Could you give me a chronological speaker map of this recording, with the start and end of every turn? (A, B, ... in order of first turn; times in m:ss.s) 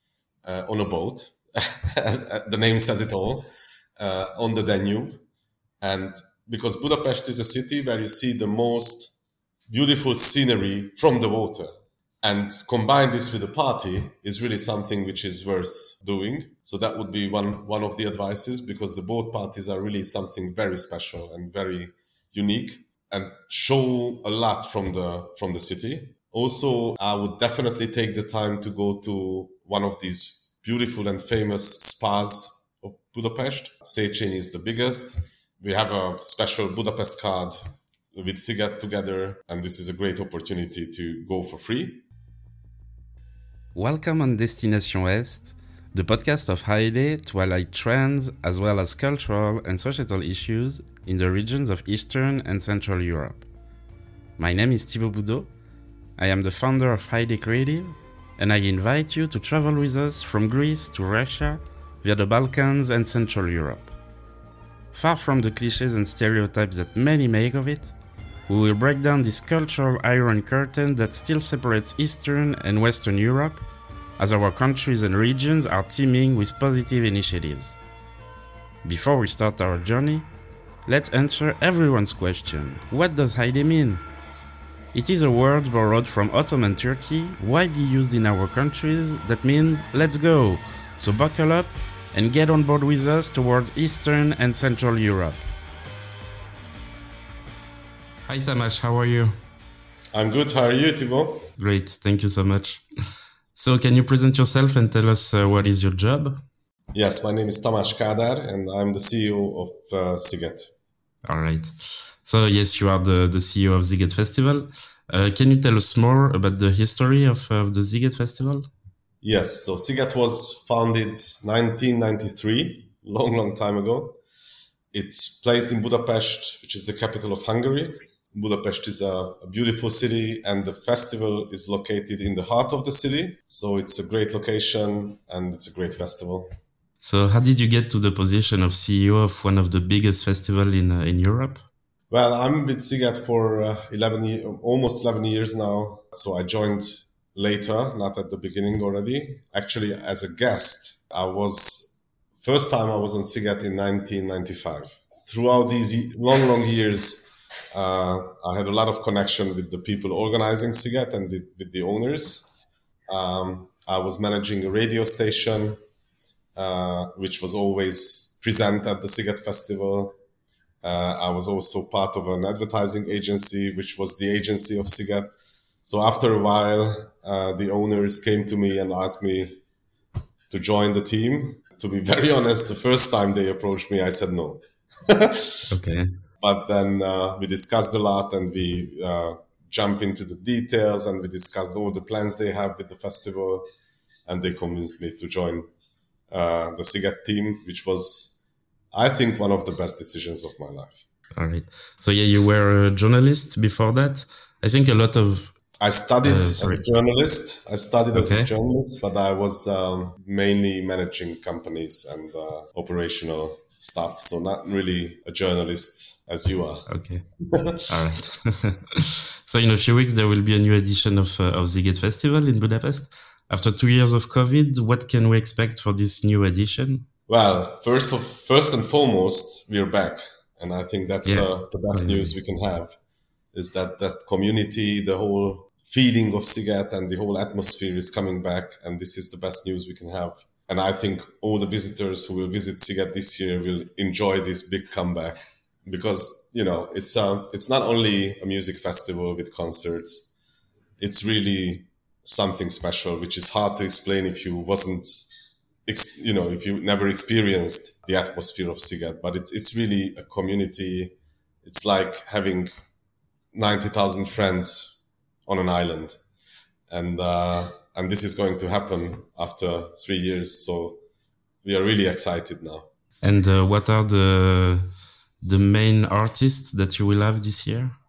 0:00.4-0:05.2 A
0:05.8-0:09.1 A
0:09.7-0:42.0 A
0:43.8-0:53.4 B
0:54.4-0:55.5 B
0:56.2-1:03.9 B
1:04.9-1:07.9 B
1:08.5-1:13.6 B
1:14.2-1:17.8 B
1:18.8-1:20.3 B
1:20.8-1:24.0 B
1:24.9-1:35.4 B
1:38.3-1:39.3 B
1:40.1-1:41.5 A
1:41.6-1:42.8 B
1:43.5-1:46.4 B
1:46.9-1:50.7 A
1:51.2-1:58.7 B
1:59.2-2:04.2 A
2:04.9-2:16.5 A
2:17.0-2:21.6 B
2:22.1-2:42.5 A
2:43.1-2:45.8 A
2:46.5-2:50.1 A
2:50.8-2:55.3 A
2:55.8-2:59.6 A
3:00.5-3:05.7 A
3:05.7-3:06.1 B
3:06.4-3:13.6 A
3:14.3-3:15.7 A
3:16.3-3:18.4 A
3:18.9-3:21.0 A
3:21.3-3:25.6 B
3:25.8-3:36.9 A
3:26.2-3:26.8 B
3:28.1-3:28.5 B
3:36.9-3:37.2 B
3:37.4-3:37.9 A
3:37.9-3:47.1 B
3:47.3-3:52.9 A
3:51.2-3:52.3 B
3:53.5-4:10.3 A
4:11.0-4:15.3 A
4:15.8-4:21.1 A
4:21.6-4:22.7 A
4:23.5-4:26.2 A
4:26.9-4:31.0 A
4:31.6-4:32.9 A
4:33.2-4:34.9 B
4:35.4-4:38.0 B